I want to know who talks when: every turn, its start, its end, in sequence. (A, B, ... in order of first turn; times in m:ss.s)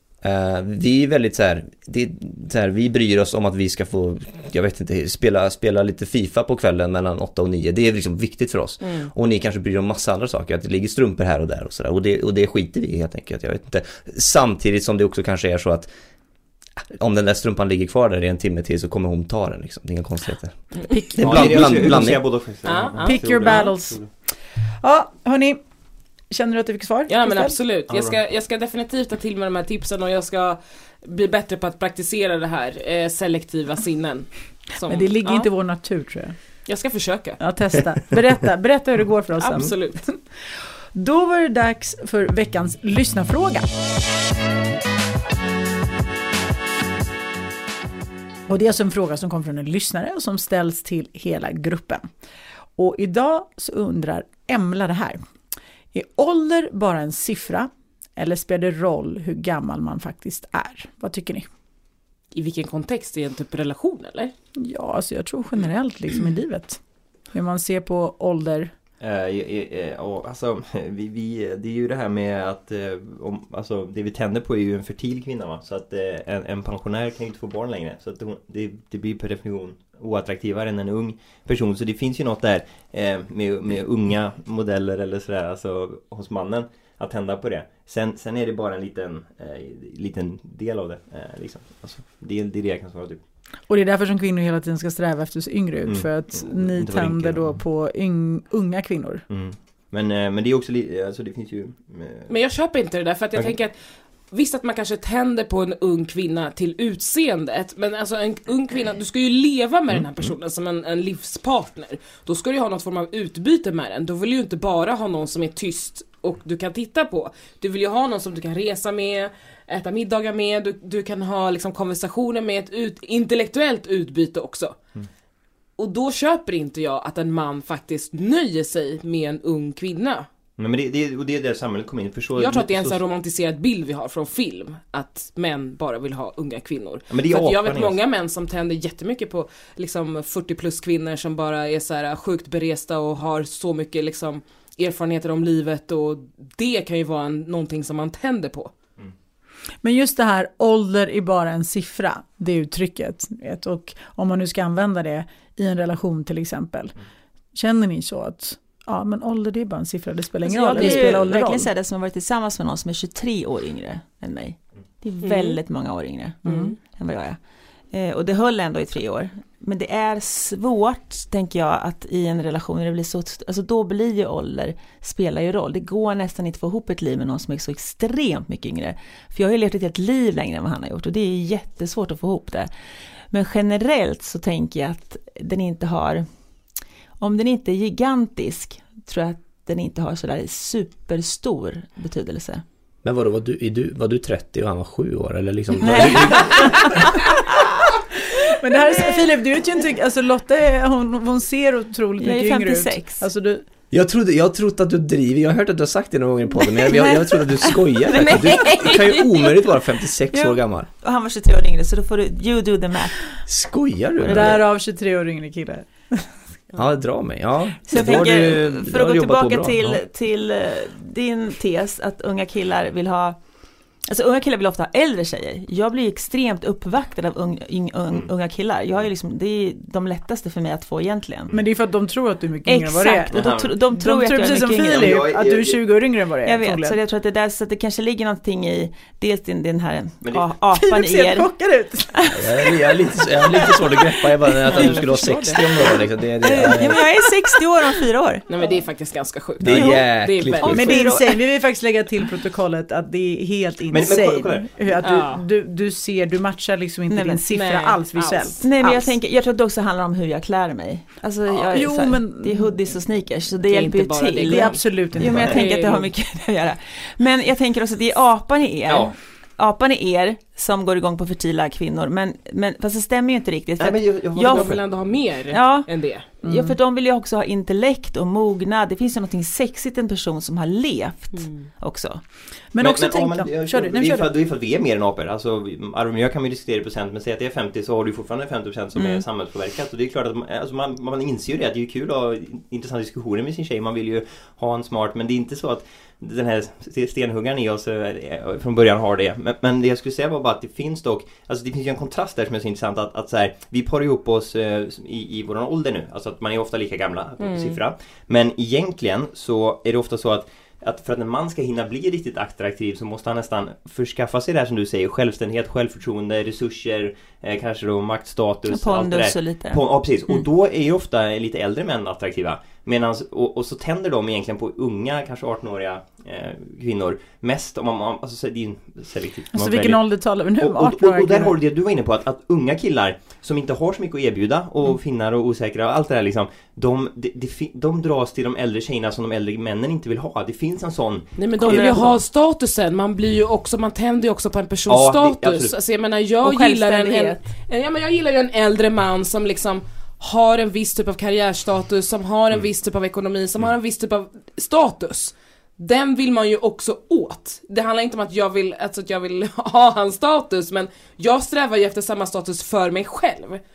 0:00.2-0:15.9 A
0:08.8-0:09.1 B
0:16.8-0:22.4 A
0:20.8-0:21.6 C
0:21.2-0:24.1 D
0:22.6-0:23.5 B
0:23.0-0:24.0 C
0:24.8-0:25.6 C
0:26.3-0:27.6 C
0:27.1-0:35.5 B
0:27.9-0:28.2 D
0:34.8-0:36.6 C
0:36.6-0:37.4 B
0:37.4-0:43.6 C
0:39.4-0:40.0 B
0:48.5-0:52.0 C
0:52.8-0:55.2 C
0:55.9-1:01.5 C
1:02.3-1:04.3 B
1:04.6-1:06.8 C
1:07.3-1:08.7 C
1:09.0-1:33.2 D
1:33.7-1:39.2 C
1:35.8-1:37.6 D
1:39.3-1:42.4 D
1:42.3-1:43.8 B
1:44.3-2:04.8 B
2:05.8-2:10.3 B
2:10.6-2:13.0 D
2:12.3-2:28.7 B
2:17.1-2:18.0 D
2:29.8-2:37.0 C
2:37.5-2:41.7 C
2:40.4-3:02.7 E
2:40.8-2:41.1 B
2:45.2-2:45.6 B
2:46.4-2:46.8 B
3:03.3-3:06.2 E
3:07.2-3:12.6 E
3:13.0-3:17.2 A
3:15.8-3:17.3 E
3:18.4-3:23.6 C
3:22.2-3:23.2 E
3:23.9-3:30.9 A
3:26.6-3:29.6 E
3:30.3-3:33.4 E
3:33.4-3:34.6 A
3:34.2-3:34.6 E
3:34.3-3:36.4 C
3:36.7-3:40.0 A
3:37.8-3:43.4 E
3:44.0-3:51.5 E
3:51.5-3:57.0 C
3:52.6-3:55.2 E
3:53.3-3:53.7 D
3:54.4-3:56.0 D
3:56.4-4:01.5 E
4:00.2-4:00.5 D
4:00.7-4:04.0 C
4:02.2-4:02.6 E
4:02.3-4:07.0 A
4:04.6-4:05.6 B
4:06.4-4:08.4 E
4:08.5-4:11.1 B
4:09.6-4:11.0 A
4:09.7-4:10.0 E
4:10.6-4:11.5 E
4:10.7-4:19.2 C
4:13.9-4:15.0 D
4:15.0-4:15.4 B
4:17.1-4:17.4 E
4:17.5-4:18.6 B
4:18.6-4:34.8 E
4:21.5-4:22.9 C
4:23.6-4:26.1 B
4:24.4-4:25.6 C
4:28.8-4:29.2 D
4:33.8-4:35.2 D
4:34.4-4:36.2 B
4:35.5-4:42.2 E
4:36.4-4:36.8 C
4:41.3-4:41.7 B
4:42.7-4:44.3 C
4:42.8-5:30.1 D
4:49.0-4:49.2 E
5:07.4-5:07.8 B
5:18.7-5:20.4 E
5:29.5-5:31.6 C
5:30.6-5:42.2 D
5:41.4-6:03.6 B
5:41.6-5:42.0 E
5:44.9-5:45.8 D
5:46.4-5:47.4 E